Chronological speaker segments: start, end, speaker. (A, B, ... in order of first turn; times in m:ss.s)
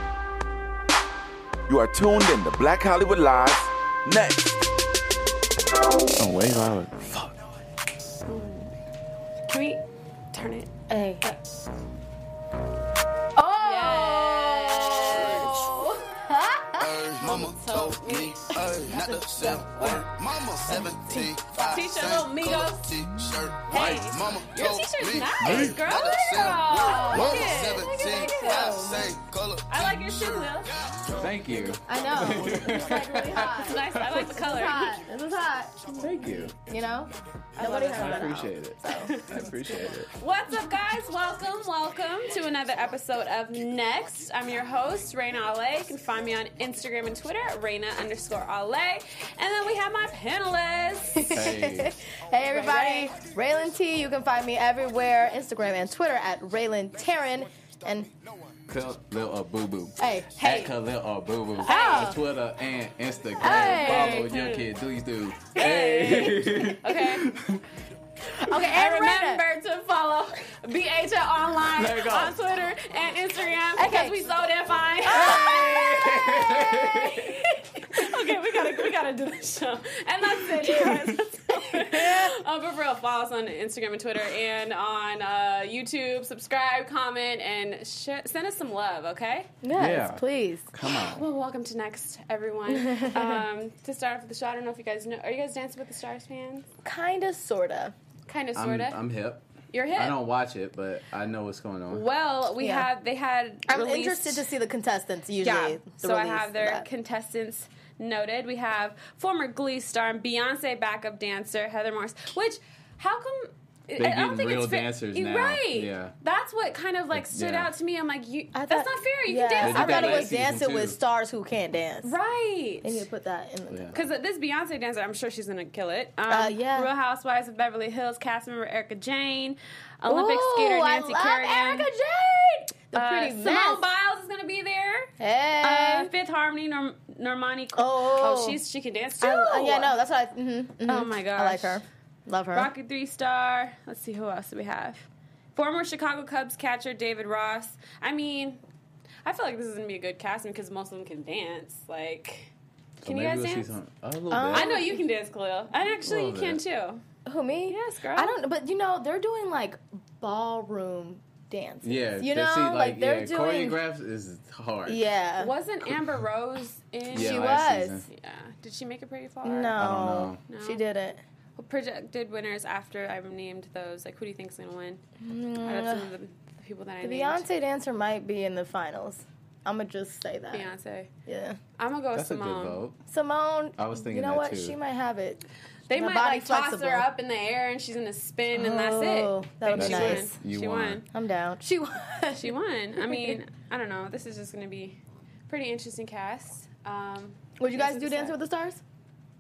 0:01.7-0:04.7 A
0:06.2-0:07.3 B
0:08.2-0:08.8 C
0:09.5-0:10.7 C
0:10.9-0:11.3 D
0:13.4-0:17.4 D
0:13.6-0:15.7 C
0:16.8-0:31.3 E
0:17.1-0:18.9 C
0:18.7-0:22.1 D
0:21.6-0:29.0 C
0:23.6-0:24.4 B
0:25.4-0:25.9 B
0:26.1-0:29.2 D
0:29.7-0:30.9 C
0:31.2-0:34.4 B
0:31.6-0:39.2 D
0:33.6-0:35.0 C
0:36.0-0:36.5 B
0:37.6-0:38.4 C
0:37.8-0:40.1 B
0:38.9-0:39.5 C
0:40.1-0:51.4 C
0:51.1-0:58.1 D
0:51.3-0:52.0 B
0:52.4-0:53.1 C
0:58.7-1:07.6 B
1:00.0-1:00.3 D
1:00.4-1:00.7 C
1:01.6-1:02.2 D
1:01.6-1:02.2 C
1:03.4-1:04.3 D
1:03.4-1:04.7 C
1:05.6-1:07.3 C
1:08.3-1:09.4 D
1:08.5-1:16.4 C
1:11.7-1:12.4 B
1:13.8-1:14.4 D
1:15.0-1:17.8 D
1:15.1-1:17.4 B
1:17.0-1:29.5 C
1:21.6-1:22.3 D
1:29.6-1:30.7 D
1:29.8-1:31.2 B
1:30.8-1:36.7 C
1:32.7-1:33.4 D
1:36.8-1:38.0 D
1:38.3-1:39.0 C
1:38.6-1:42.0 B
1:39.7-1:40.2 C
1:41.9-1:44.4 C
1:42.6-1:42.9 D
1:43.7-1:46.9 D
1:45.4-2:00.3 C
1:54.0-1:56.2 B
1:57.1-1:57.7 B
1:58.5-2:02.1 D
1:59.6-2:01.0 B
2:02.0-2:03.0 C
2:02.8-2:04.0 D
2:03.9-2:11.9 C
2:06.3-2:06.9 D
2:10.0-2:13.8 D
2:12.9-2:20.0 C
2:15.2-2:16.1 D
2:17.8-2:18.6 D
2:19.2-2:22.7 D
2:20.8-2:21.8 C
2:22.5-2:28.6 C
2:29.2-2:32.5 C
2:33.0-2:34.7 B
2:33.0-2:33.8 C
2:34.3-2:35.0 D
2:34.5-2:37.0 C
2:36.0-2:36.6 B
2:37.2-2:43.8 D
2:37.7-2:38.4 C
2:41.8-2:45.0 B
2:44.9-2:45.5 D
2:45.4-2:47.6 C
2:47.1-2:48.0 D
2:47.1-2:48.0 B
2:48.1-2:49.8 C
2:49.4-2:51.2 D
2:49.8-2:50.4 B
2:50.5-2:50.8 C
2:51.6-2:55.0 C
2:55.2-2:56.1 D
2:55.6-2:57.5 C
2:57.0-3:00.7 D
3:00.5-3:01.1 C
3:01.3-3:01.6 D
3:01.8-3:02.8 C
3:02.2-3:03.0 B
3:03.1-3:07.1 D
3:03.8-3:04.8 B
3:05.9-3:11.0 C
3:08.5-3:10.4 D
3:09.7-3:11.0 B
3:11.1-3:13.4 D
3:12.4-3:18.4 C
3:17.6-3:18.8 D